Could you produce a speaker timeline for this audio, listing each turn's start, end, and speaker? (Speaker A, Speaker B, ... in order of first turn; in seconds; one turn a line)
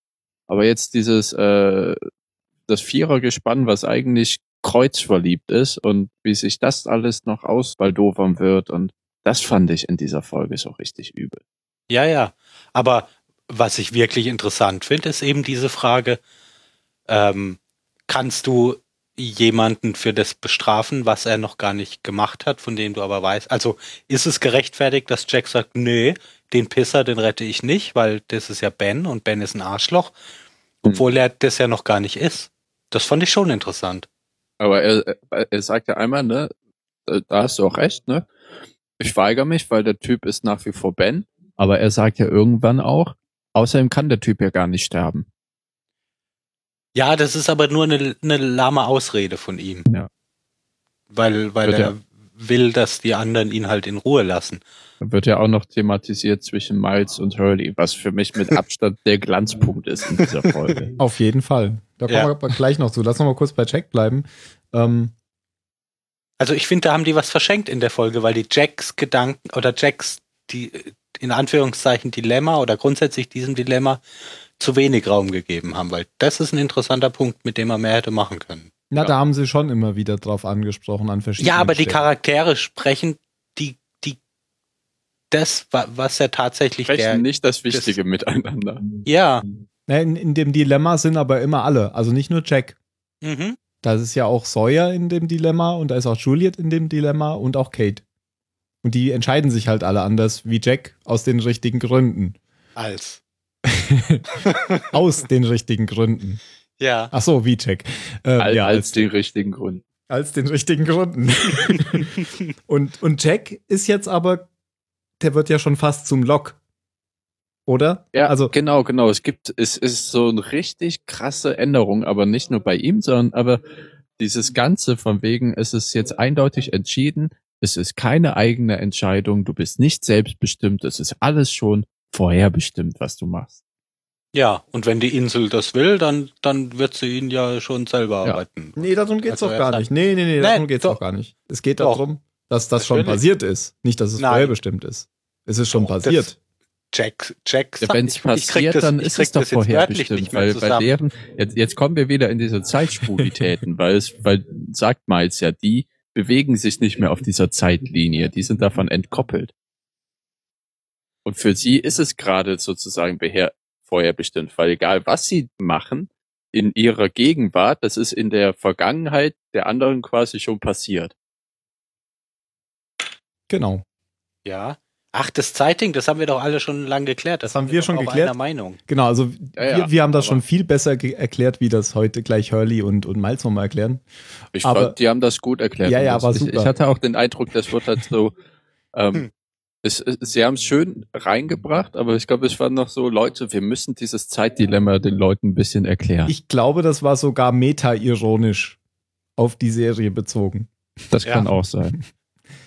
Speaker A: 0.5-2.0
Speaker A: 2.7-11.4
Speaker B: 11.9-16.2
Speaker B: 17.1-30.1
Speaker B: 30.8-34.1
Speaker A: 34.6-36.5
Speaker A: 37.1-38.3
Speaker A: 39.0-45.3
Speaker B: 47.0-49.9
Speaker B: 51.1-54.6
Speaker A: 51.6-51.9
Speaker A: 55.0-60.9
Speaker C: 61.0-65.1
Speaker B: 66.4-74.0
Speaker B: 74.6-78.7
Speaker C: 78.9-82.1
Speaker B: 81.4-84.2
Speaker B: 85.3-88.0
Speaker A: 86.9-89.0
Speaker B: 89.0-89.5
Speaker C: 89.9-92.8
Speaker B: 93.2-93.6
Speaker C: 93.8-98.0
Speaker C: 98.8-102.4
Speaker B: 102.8-103.2
Speaker C: 103.7-104.3
Speaker B: 104.5-104.9
Speaker C: 104.9-106.4
Speaker B: 106.8-107.1
Speaker C: 107.1-109.0
Speaker A: 108.4-109.8
Speaker C: 110.1-114.5
Speaker C: 115.2-116.6
Speaker C: 117.7-118.5
Speaker A: 118.1-123.6
Speaker A: 124.2-133.6
Speaker B: 134.3-139.9
Speaker C: 138.8-146.4
Speaker B: 140.4-141.0
Speaker B: 142.8-143.2
Speaker B: 144.2-144.6
Speaker B: 145.7-146.3
Speaker B: 146.9-150.9
Speaker A: 147.8-159.5
Speaker A: 161.2-171.1
Speaker C: 173.5-173.8
Speaker B: 174.4-178.8
Speaker C: 177.4-178.3
Speaker C: 178.9-184.1
Speaker A: 179.6-180.4
Speaker A: 184.6-188.3
Speaker C: 184.6-185.0
Speaker C: 185.8-186.7
Speaker A: 188.9-189.3
Speaker A: 189.8-196.3
Speaker C: 196.3-198.8
Speaker C: 199.4-200.7
Speaker A: 201.1-202.0